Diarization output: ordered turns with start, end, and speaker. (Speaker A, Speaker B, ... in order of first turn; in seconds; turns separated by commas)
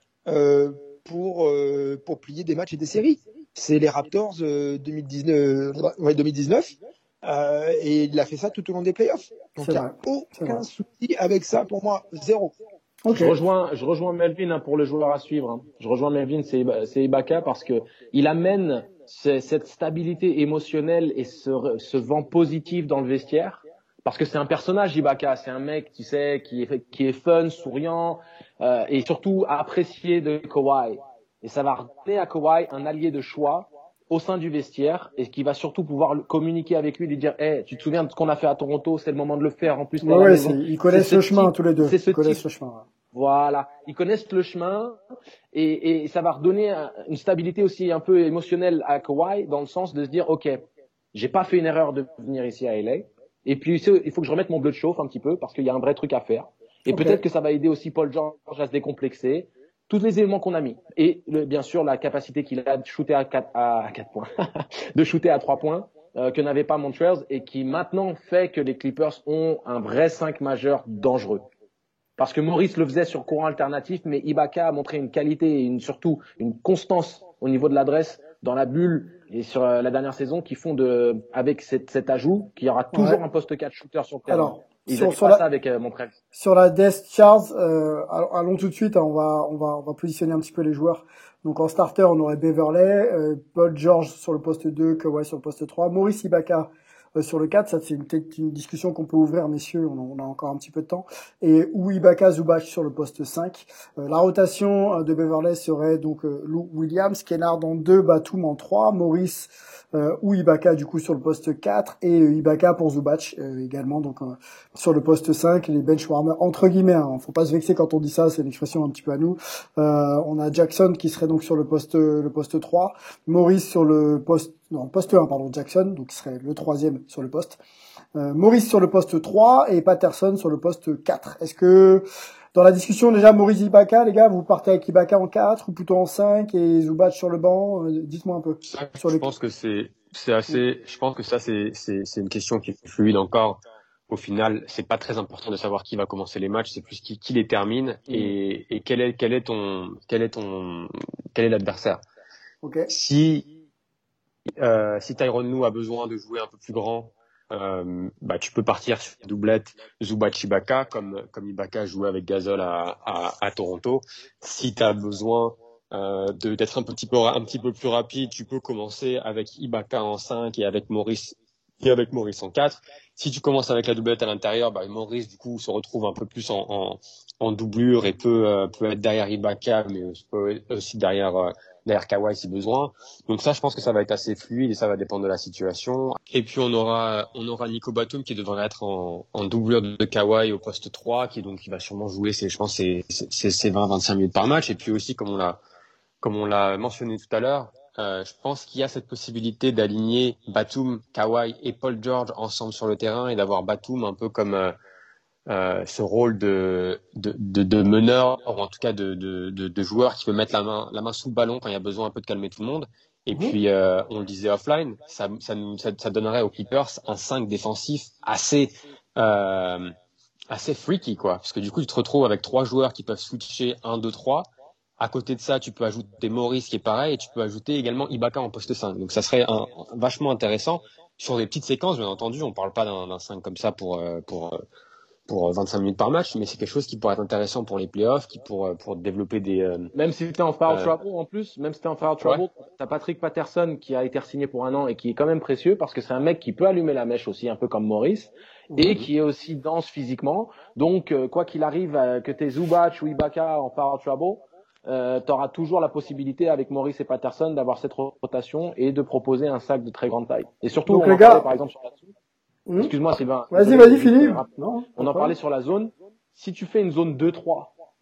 Speaker A: 0.3-12.5, Speaker B: 9.6-10.6, Speaker B: 13.1-13.4, Speaker C: 13.1-42.4, Speaker B: 40.0-42.9, Speaker C: 43.1-45.0, Speaker C: 45.5-71.5, Speaker B: 56.9-57.2, Speaker C: 72.2-86.1, Speaker B: 82.9-83.2, Speaker B: 84.3-85.5, Speaker B: 86.3-127.6, Speaker B: 128.2-139.3, Speaker D: 138.7-152.0, Speaker B: 152.6-152.9, Speaker D: 152.9-153.5, Speaker D: 154.6-195.6, Speaker D: 196.2-204.7, Speaker D: 205.5-219.9, Speaker D: 220.5-224.5, Speaker D: 225.0-234.6, Speaker D: 235.3-239.9, Speaker C: 239.9-262.1, Speaker B: 248.7-249.1, Speaker B: 260.9-261.5, Speaker B: 262.7-262.9, Speaker C: 262.8-267.7, Speaker B: 263.5-265.4